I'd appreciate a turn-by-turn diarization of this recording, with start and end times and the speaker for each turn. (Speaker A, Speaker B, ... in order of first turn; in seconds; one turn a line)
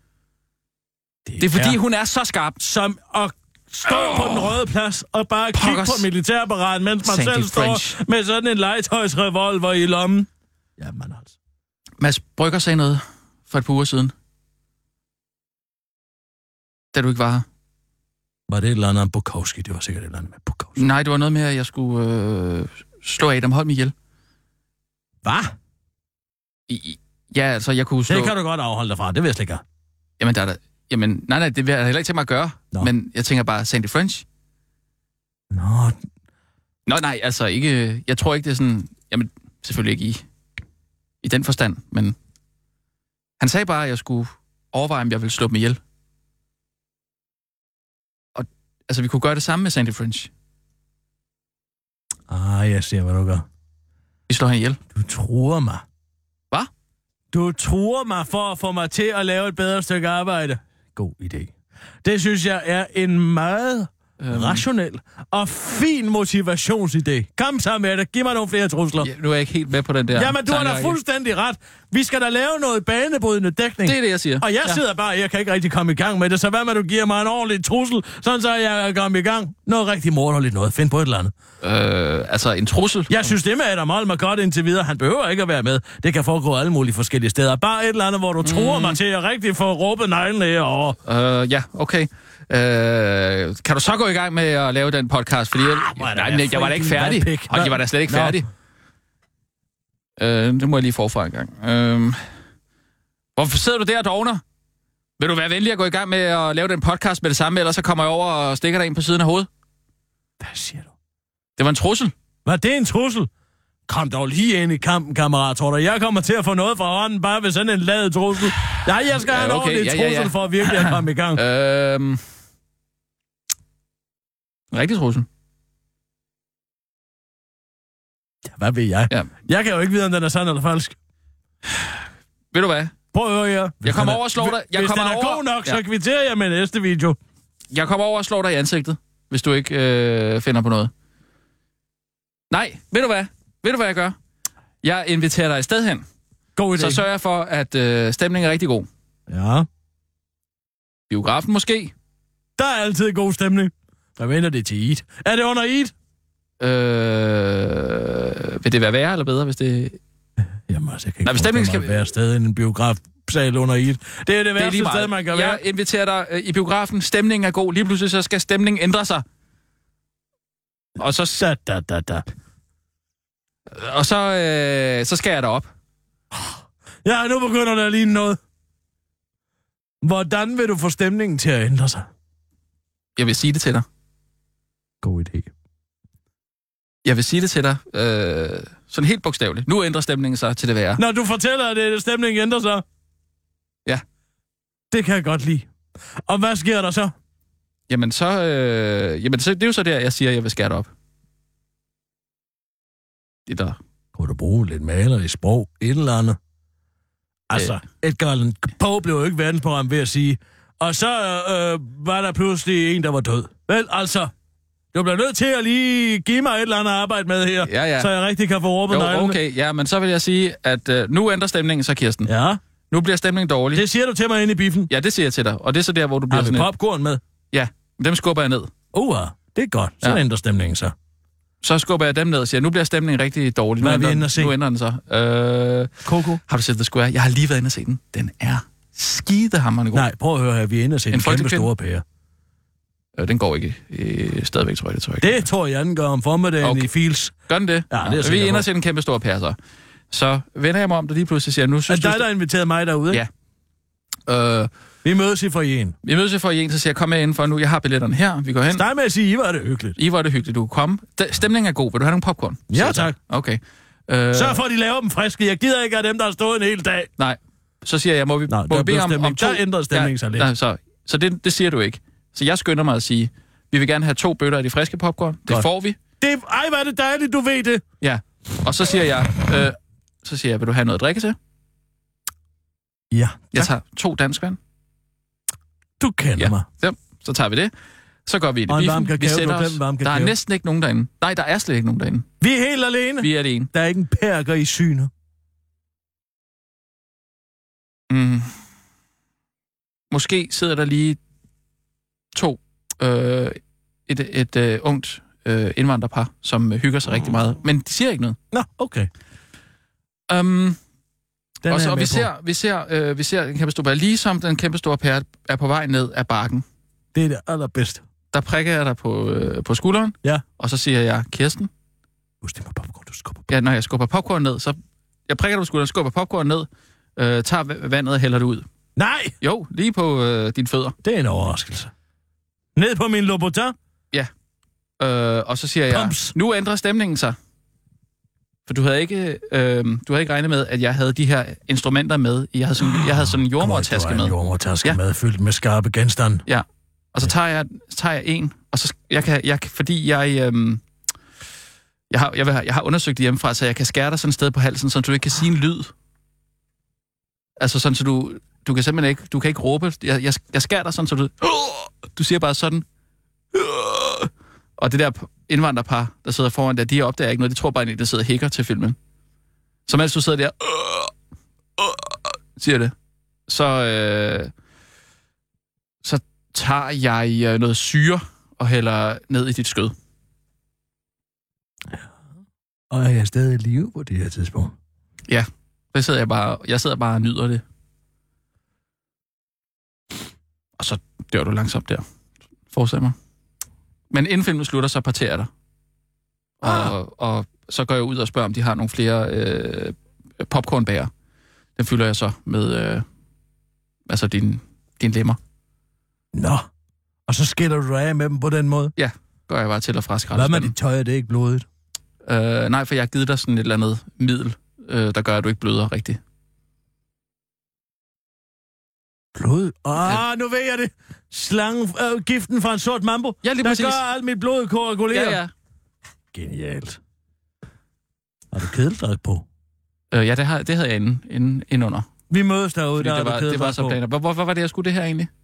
Speaker A: 1.3-1.8
Speaker B: 1.4-2.6
Speaker A: 2.6-11.3
Speaker B: 3.9-4.5
Speaker B: 5.5-6.1
Speaker B: 7.0-8.0
Speaker B: 12.0-14.1
Speaker B: 16.9-17.5
Speaker A: 18.5-20.8
Speaker B: 20.8-23.9
Speaker A: 25.2-25.5
Speaker B: 26.7-28.3
Speaker A: 28.1-29.6
Speaker B: 30.2-34.2
Speaker A: 35.5-36.0
Speaker B: 36.9-40.2
Speaker B: 41.2-42.2
Speaker B: 43.4-45.8
Speaker B: 48.4-50.3
Speaker A: 52.3-53.5
Speaker B: 54.3-54.8
Speaker A: 55.0-55.8
Speaker A: 57.3-61.5
Speaker A: 62.0-69.1
Speaker B: 64.2-64.6
Speaker B: 69.0-71.0
Speaker A: 70.1-81.3
Speaker B: 73.8-74.8
Speaker B: 81.6-83.3
Speaker A: 83.1-91.0
Speaker B: 88.4-89.0
Speaker B: 91.0-98.5
Speaker A: 95.6-98.4
Speaker B: 100.2-102.2
Speaker B: 103.4-104.4
Speaker B: 105.2-109.5
Speaker A: 110.4-110.9
Speaker B: 111.6-112.1
Speaker A: 112.5-113.3
Speaker A: 113.9-121.4
Speaker B: 119.2-122.2
Speaker B: 124.7-125.3
Speaker A: 128.4-131.0
Speaker B: 131.7-132.0
Speaker B: 132.5-132.9
Speaker A: 133.1-137.2
Speaker B: 133.8-135.8
Speaker B: 137.7-140.9
Speaker B: 142.5-144.2
Speaker B: 144.8-146.1
Speaker A: 146.6-147.0
Speaker B: 146.8-148.9
Speaker A: 149.3-149.7
Speaker B: 151.1-151.9
Speaker A: 152.6-155.9
Speaker B: 156.6-160.0
Speaker A: 160.7-165.6
Speaker B: 161.2-161.9
Speaker B: 164.6-169.2
Speaker B: 171.0-171.4
Speaker A: 171.3-172.3
Speaker B: 173.7-175.7
Speaker A: 176.3-178.4
Speaker A: 180.0-182.1
Speaker B: 183.2-183.9
Speaker A: 185.0-185.5
Speaker B: 187.1-191.0
Speaker A: 191.0-192.8
Speaker A: 194.9-195.7
Speaker A: 196.3-197.1
Speaker B: 197.9-200.9
Speaker B: 203.5-203.8
Speaker A: 204.2-206.4
Speaker A: 207.5-214.3
Speaker A: 214.9-219.4
Speaker B: 217.7-218.1
Speaker B: 218.9-222.3
Speaker A: 222.3-222.6
Speaker B: 222.9-223.8
Speaker A: 223.7-224.9
Speaker B: 224.9-226.7
Speaker A: 226.3-227.2
Speaker B: 227.5-228.7
Speaker A: 228.9-230.9
Speaker B: 231.6-240.1
Speaker A: 233.8-234.6
Speaker A: 236.1-236.4
Speaker A: 239.9-242.0
Speaker B: 241.1-241.7
Speaker B: 243.2-245.5
Speaker A: 245.2-247.3
Speaker B: 246.6-246.9
Speaker B: 247.5-249.6
Speaker A: 247.9-248.7
Speaker B: 250.1-252.3
Speaker A: 251.9-253.2
Speaker B: 254.3-254.7
Speaker A: 255.0-256.0
Speaker B: 256.0-258.8
Speaker A: 258.7-260.0
Speaker B: 260.0-264.6
Speaker A: 262.7-263.1
Speaker A: 264.3-267.1
Speaker B: 267.2-276.0
Speaker A: 268.5-270.5
Speaker A: 276.2-277.8
Speaker B: 278.0-281.4
Speaker A: 283.1-283.7
Speaker B: 283.5-284.6
Speaker A: 286.0-286.6
Speaker B: 286.4-287.7
Speaker B: 288.3-292.3
Speaker A: 288.7-290.4
Speaker A: 292.4-295.1
Speaker B: 293.2-293.7
Speaker B: 298.1-298.5
Speaker B: 300.1-301.2
Speaker B: 302.3-308.4
Speaker A: 308.5-309.1
Speaker B: 310.3-310.8
Speaker A: 311.6-312.3
Speaker B: 311.7-316.6
Speaker A: 317.1-318.0
Speaker B: 318.3-321.7
Speaker A: 322.4-323.5
Speaker B: 323.5-328.7
Speaker A: 329.0-329.4
Speaker B: 329.4-331.0
Speaker A: 331.0-331.9
Speaker A: 332.8-333.8
Speaker B: 335.0-337.4
Speaker A: 335.9-336.4
Speaker B: 338.7-345.0
Speaker A: 342.8-346.4
Speaker B: 346.5-350.8
Speaker B: 352.1-355.9
Speaker B: 357.6-362.9
Speaker B: 363.6-369.0
Speaker B: 369.9-371.1
Speaker B: 372.6-372.9
Speaker B: 373.5-374.5
Speaker B: 376.0-379.9
Speaker A: 382.9-384.8
Speaker B: 385.3-387.6
Speaker B: 390.8-392.1
Speaker B: 392.7-393.2
Speaker B: 394.1-395.5
Speaker B: 396.6-401.1
Speaker A: 396.6-396.9
Speaker B: 401.8-403.1
Speaker B: 404.1-405.4
Speaker A: 406.3-406.7
Speaker A: 407.3-408.9
Speaker B: 409.0-410.8
Speaker A: 410.3-411.7
Speaker B: 412.2-416.2
Speaker A: 419.3-425.4
Speaker B: 423.4-424.0
Speaker B: 425.1-425.5
Speaker A: 426.3-427.0
Speaker A: 428.5-429.4
Speaker B: 430.1-432.1
Speaker A: 432.3-434.0
Speaker B: 433.0-435.3